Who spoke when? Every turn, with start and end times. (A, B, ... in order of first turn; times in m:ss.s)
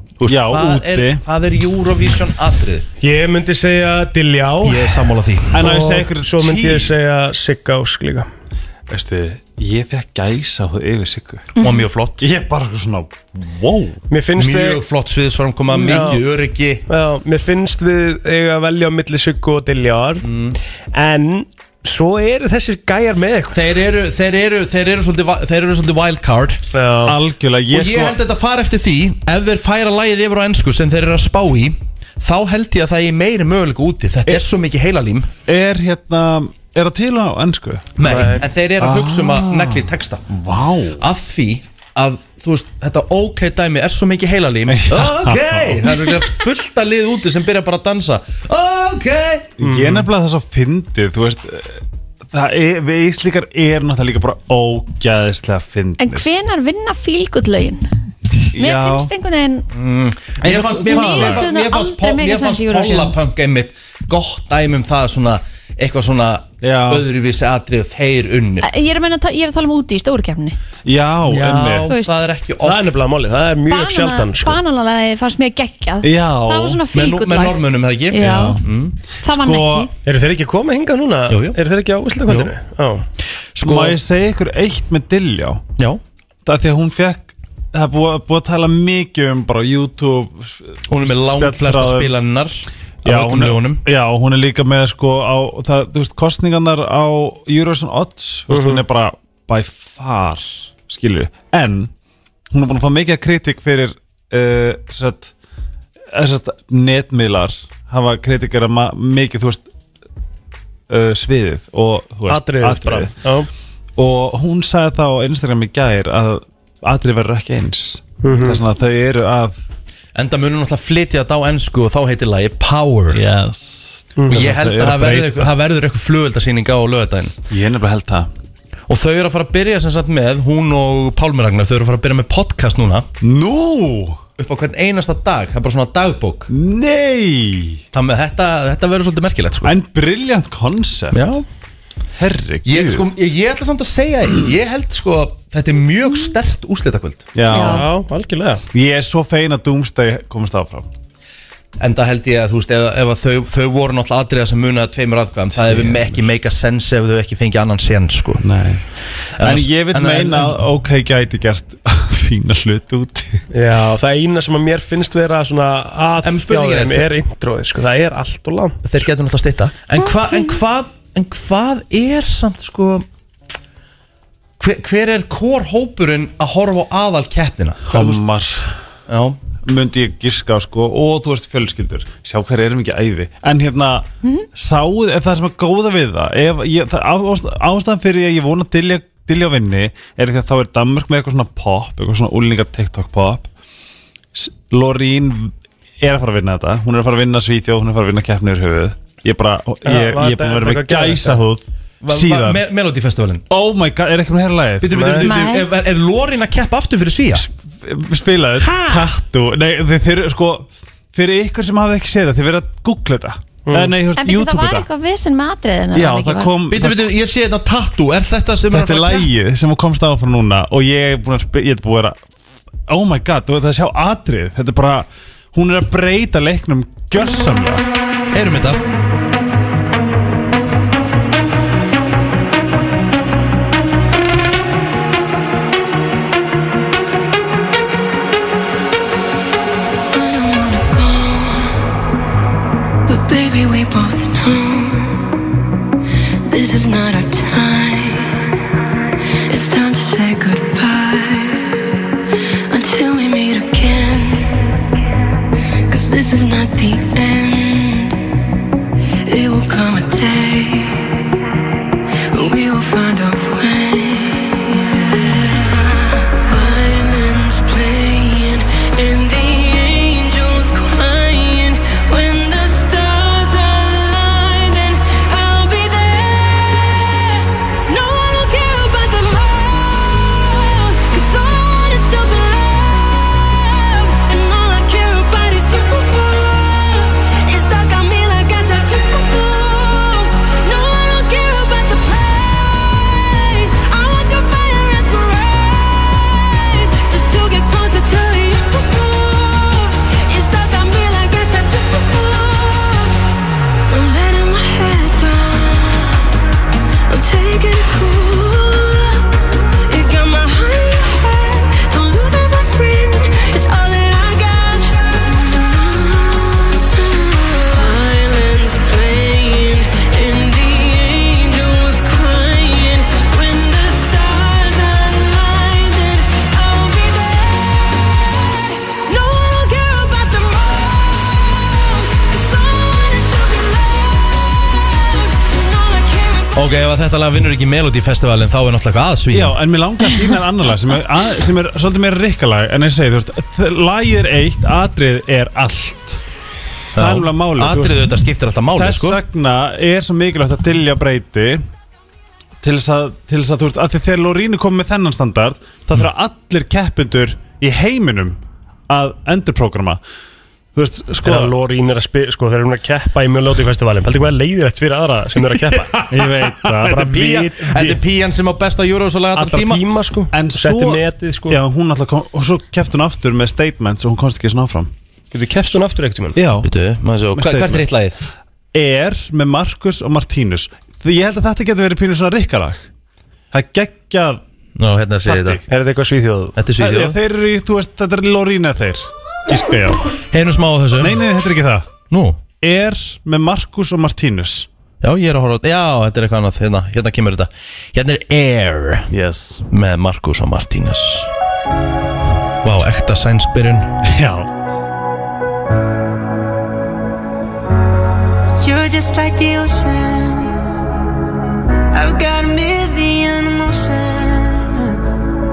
0:00.2-0:02.8 A
0:00.2-0:01.2 B
0:03.0-0:05.0 C
0:04.6-0:05.6 A
0:05.5-0:06.9 B
0:05.6-0:08.3 C
0:08.9-0:11.5 B
0:11.6-0:12.2 A
0:12.2-0:14.0 B
0:14.1-0:14.8 C
0:14.4-0:16.8 A
0:15.7-0:16.2 C
0:16.9-0:20.3 C
0:20.2-0:20.6 A
0:20.9-0:23.7 C
0:23.5-0:26.6 A
0:26.7-0:27.2 C
0:27.0-0:28.2 B
0:27.7-0:35.3 A
0:35.4-0:41.0 B
0:38.0-0:40.2 A
0:38.0-0:38.4 C
0:41.0-0:49.5 A
0:44.7-0:46.4 B
0:49.6-0:56.2 B
0:49.6-0:50.1 C
0:56.0-0:57.8 D
0:58.5-0:59.1 B
0:58.5-0:59.6 D
0:59.7-1:08.7 A
1:00.4-1:01.5 B
1:00.8-1:03.2 D
1:06.6-1:07.0 B
1:08.6-1:10.6 D
1:10.8-1:11.9 B
1:11.2-1:12.9 A
1:11.9-1:12.2 D
1:12.6-1:14.6 C
1:13.7-1:18.6 D
1:16.0-1:16.8 B
1:16.9-1:19.0 A
1:18.2-1:18.6 B
1:19.2-1:19.9 D
1:19.3-1:19.9 B
1:20.0-1:23.0 C
1:21.3-1:21.6 A
1:23.6-1:24.0 A
1:23.6-1:25.6 B
1:26.4-1:32.1 B
1:30.9-1:33.8 A
1:33.0-1:41.9 B
1:38.5-1:38.8 C
1:42.5-1:45.3 B
1:46.1-1:49.6 B
1:50.9-1:53.1 B
1:52.3-1:53.5 C
1:54.0-1:59.6 B
1:58.2-1:58.6 C
2:00.1-2:03.2 A
2:03.1-2:05.5 B
2:04.2-2:04.5 C
2:04.3-2:07.4 A
2:07.5-2:08.3 B
2:08.9-2:13.1 A
2:13.2-2:14.2 B
2:14.4-2:16.5 A
2:16.5-2:17.8 B
2:17.9-2:19.8 A
2:19.6-2:21.4 B
2:21.1-2:21.4 A
2:22.2-2:23.1 B
2:22.6-2:27.3 A
2:27.3-2:27.8 B
2:27.5-2:27.8 D
2:27.6-2:28.6 C
2:28.7-2:30.9 B
2:31.8-2:38.4 A
2:35.6-2:36.2 B
2:38.4-2:38.8 B
2:39.4-2:40.6 A
2:39.4-2:43.4 B
2:43.5-2:48.8 C
2:46.2-2:47.1 A
2:48.8-2:53.0 A
2:50.0-2:50.5 D
2:54.6-2:58.2 A
2:57.8-2:58.7 B
2:59.1-2:59.4 A
2:59.6-3:13.5 B
3:14.3-3:22.6 B
3:19.8-3:21.4 C
3:22.0-3:23.4 A
3:23.5-3:25.2 B
3:24.8-3:27.4 A
3:25.2-3:25.7 D
3:27.3-3:34.9 B
3:28.6-3:29.0 D
3:33.7-3:34.0 C
3:34.2-3:36.6 D
3:35.9-3:37.1 B
3:36.7-3:39.3 A
3:38.7-3:47.8 B
3:48.3-3:48.8 A
4:00.1-4:01.8 E
4:03.1-4:05.2 E
4:06.5-4:08.4 E
4:09.5-4:11.8 E
4:12.7-4:14.6 E
4:15.9-4:18.2 E
4:19.2-4:21.1 E
4:22.3-5:03.1 E
5:03.9-5:06.2 E
5:07.1-5:09.2 E
5:09.9-5:36.6 E
5:36.5-5:39.6 A
5:39.3-5:46.2 B
5:46.9-5:48.0 B
5:46.9-5:49.2 A
5:48.7-5:51.6 B
5:52.6-6:00.0 B
6:00.7-6:01.5 B
6:01.2-6:06.0 C
6:06.0-6:07.2 B
6:06.6-6:08.0 C
6:07.1-6:09.8 A
6:09.4-6:11.6 C
6:10.3-6:14.9 B
6:15.3-6:16.4 C
6:16.3-6:16.7 B
6:16.6-6:18.2 A
6:17.3-6:17.8 B
6:18.7-6:22.9 B
6:23.5-6:24.4 B
6:24.8-6:25.6 A
6:25.3-6:25.6 B
6:25.7-6:26.6 C
6:26.6-6:27.2 A
6:26.8-6:30.1 B
6:30.3-6:31.2 A
6:31.0-6:31.9 B
6:32.1-6:32.4 A
6:32.6-6:34.7 B
6:35.0-6:39.1 A
6:39.1-6:39.6 B
6:39.7-6:41.3 A
6:42.6-6:43.9 A
6:44.0-6:44.5 B
6:48.6-6:50.5 F
6:51.9-6:55.0 F